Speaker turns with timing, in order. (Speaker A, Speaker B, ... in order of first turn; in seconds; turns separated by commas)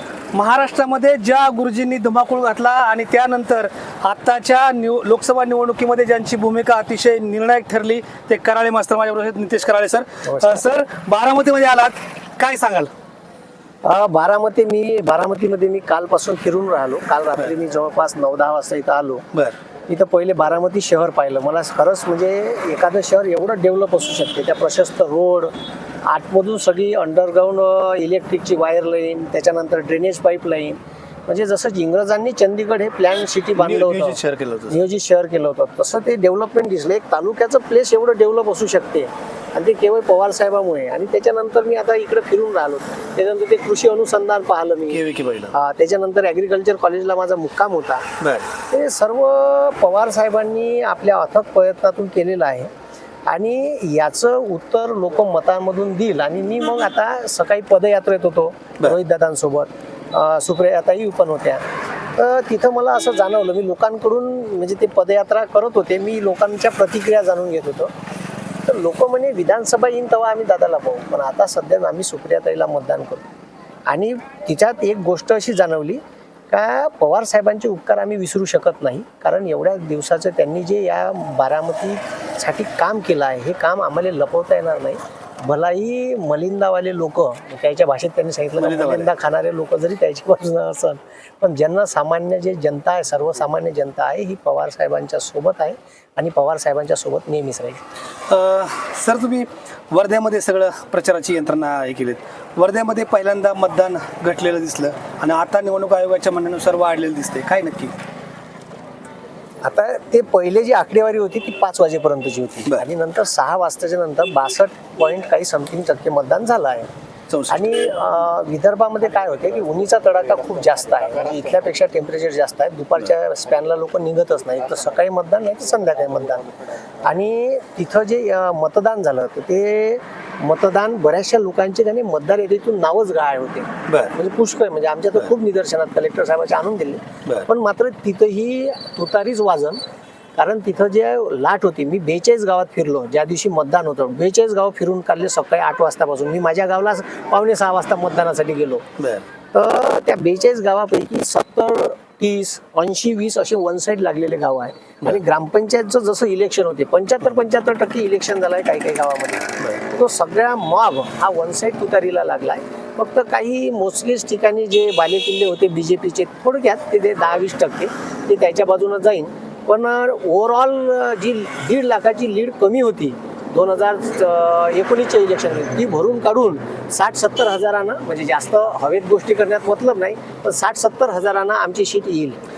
Speaker A: 0.3-12.9, Speaker B: 10.2-10.6, Speaker B: 13.8-19.2, Speaker B: 19.9-25.5, Speaker B: 26.1-45.0, Speaker A: 33.6-34.8, Speaker A: 44.9-45.6, Speaker B: 45.5-48.0, Speaker A: 48.2-48.6, Speaker B: 48.7-52.7, Speaker B: 53.3-61.6, Speaker B: 62.2-67.9, Speaker B: 68.7-73.2, Speaker B: 73.9-97.8, Speaker A: 88.6-89.1, Speaker A: 98.3-107.9, Speaker B: 109.6-116.9, Speaker A: 117.3-117.7, Speaker B: 117.5-126.5, Speaker B: 127.0-139.8, Speaker A: 133.9-134.2, Speaker B: 140.4-148.8, Speaker A: 149.0-149.3, Speaker B: 149.5-182.4, Speaker A: 159.6-159.9